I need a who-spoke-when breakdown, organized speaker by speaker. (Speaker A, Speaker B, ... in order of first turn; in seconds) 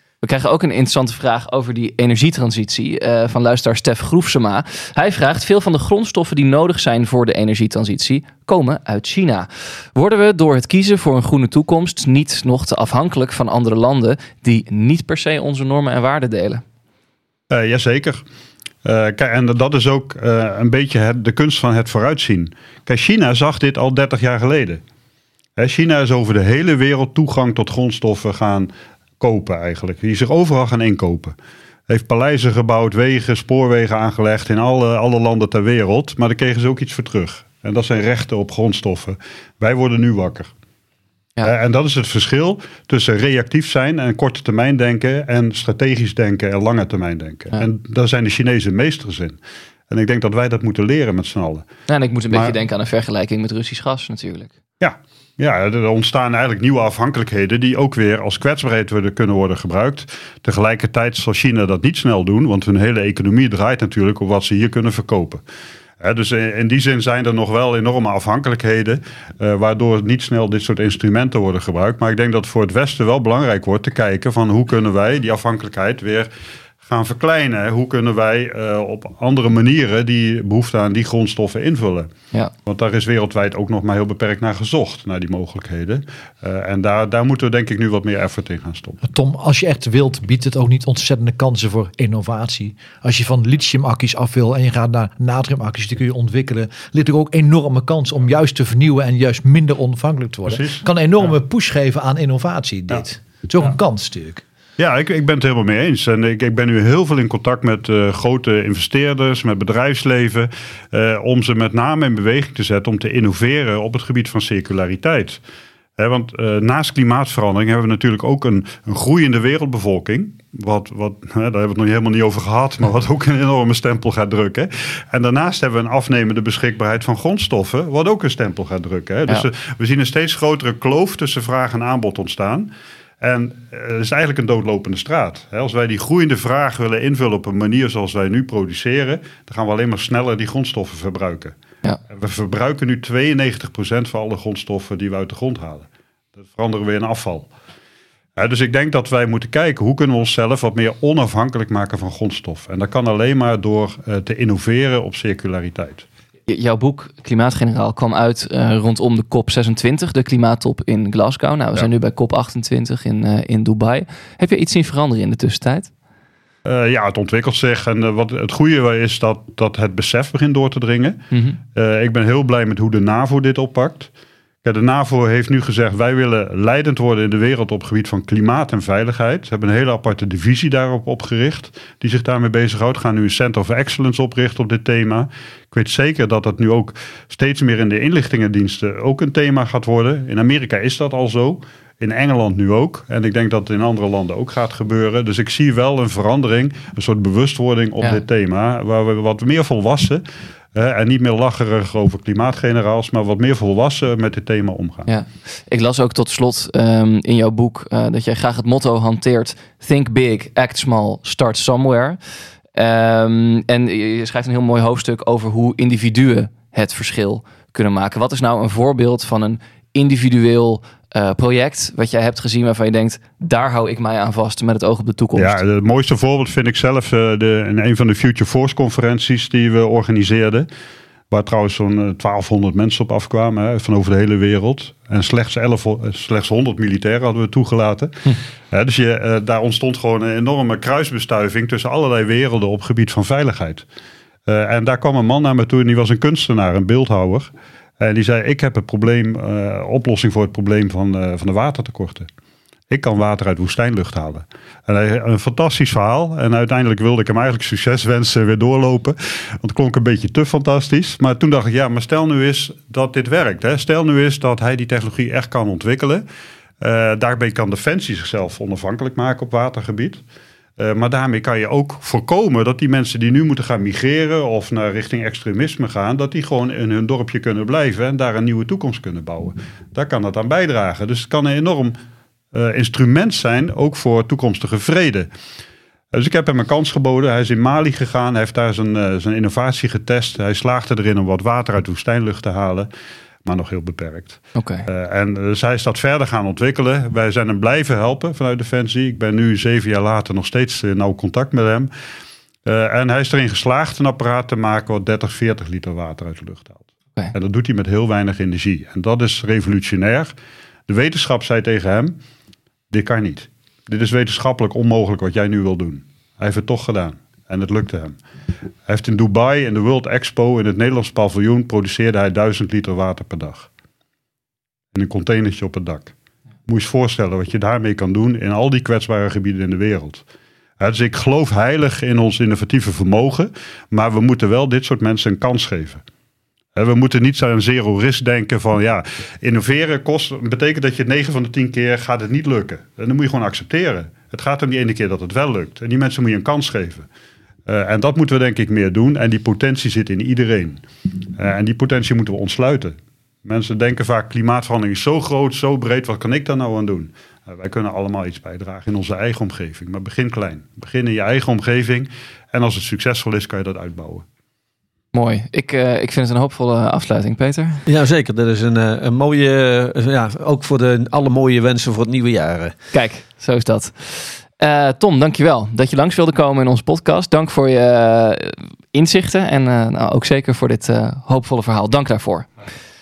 Speaker A: 0.2-16.6, 51.9-54.5, 156.5-165.9, 171.3-171.6, 205.1-212.2, 212.7-225.6, 294.5-294.9, 365.1-367.8, 372.9-382.5
Speaker B: 17.5-18.2, 18.8-24.8, 25.6-31.3, 31.9-40.5, 41.4-49.4, 49.9-51.6, 54.8-65.4, 66.0-76.3, 76.8-82.1, 82.7-89.0, 100.5-100.8, 104.8-115.4, 116.0-132.7, 133.2-141.6, 142.1-145.9, 146.4-147.5, 148.4-156.1, 166.6-171.2, 171.7-174.1, 174.6-200.2, 200.7-205.1, 225.3-230.7, 231.3-243.8, 244.5-252.3, 252.9-266.2, 266.8-270.2, 270.8-281.9, 282.5-285.3, 286.1-292.9, 293.4-301.9, 302.6-310.3, 310.9-312.2, 312.9-318.2, 318.9-323.7, 324.9-326.1, 326.7-330.2, 330.8-336.0, 336.7-347.1, 347.7-350.8, 351.4-364.2
Speaker C: 89.0-104.4
Speaker D: 367.9-372.7